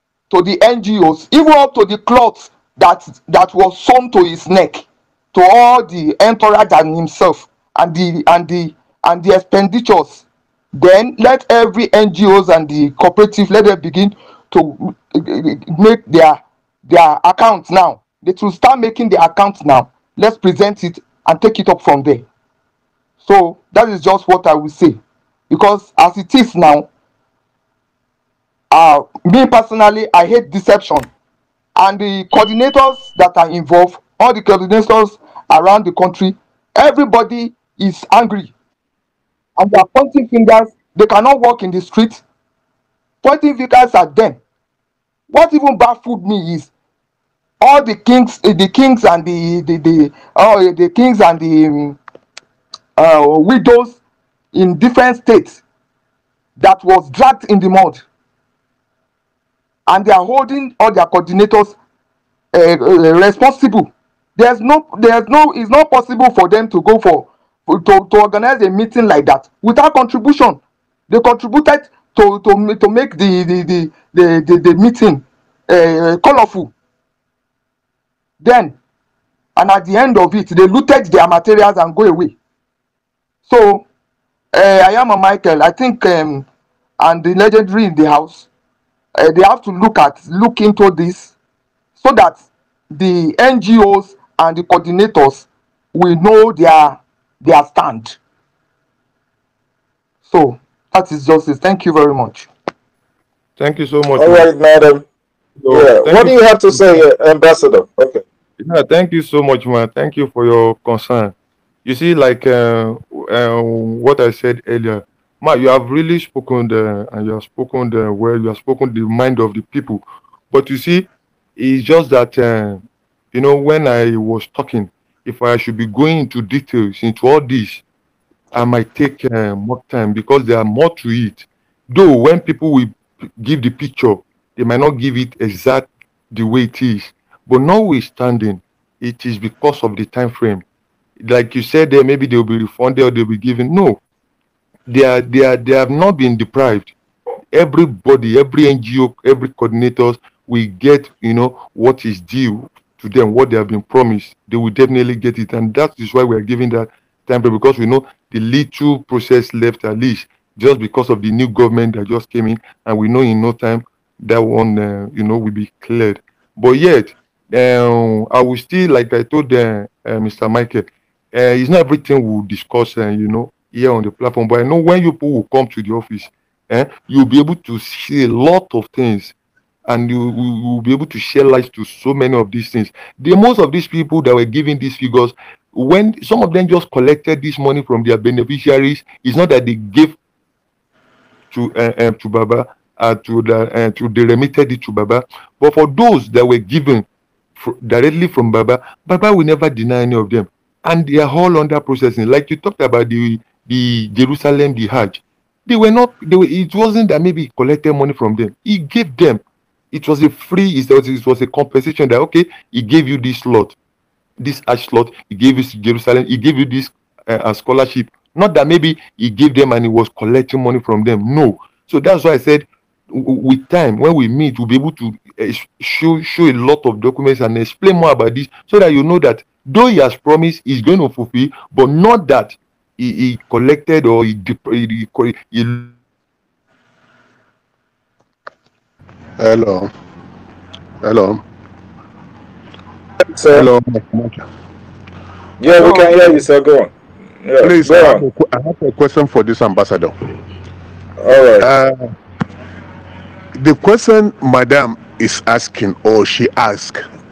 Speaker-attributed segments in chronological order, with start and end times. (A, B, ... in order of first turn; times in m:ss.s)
0:00.3-0:10.2 A
0:10.7-0:22.2 A
0:23.2-0:26.9 A
0:28.7-0:31.1 A
0:31.8-0:38.5 A
0:39.6-0:42.2 A
0:43.2-0:44.4 A
0:45.3-0:46.7 A
0:47.6-0:52.0 A
0:53.0-0:54.0 A
0:54.5-0:55.6 A
0:56.6-0:58.0 A
0:59.9-1:01.8 A
1:02.5-1:16.7 A
1:18.4-1:18.8 A
1:19.6-1:22.3 A
1:23.4-1:23.8 A
1:24.5-1:26.5 A
1:27.0-1:28.5 A
1:29.2-1:31.3 A
1:32.0-1:38.2 A
1:40.2-1:42.5 A
1:43.6-1:44.5 B
1:44.2-1:45.0 C
1:45.6-1:47.0 B
1:45.7-1:48.2 C
1:48.6-2:07.8 B
2:08.5-2:20.6 B
2:21.2-2:24.0 B
2:24.9-2:26.9 B
2:27.5-2:59.3 B
2:59.9-3:10.2 B
3:11.5-3:17.0 B
3:17.6-3:33.8 B
3:34.4-3:55.9 B
3:59.4-3:59.9 D
4:01.0-4:01.4 D
4:03.3-4:03.7 C
4:03.5-4:04.4 D
4:05.6-4:08.2 C
4:05.8-4:06.1 A
4:07.6-4:10.1 D
4:11.2-4:11.7 C
4:11.6-4:12.1 D
4:13.5-4:17.0 D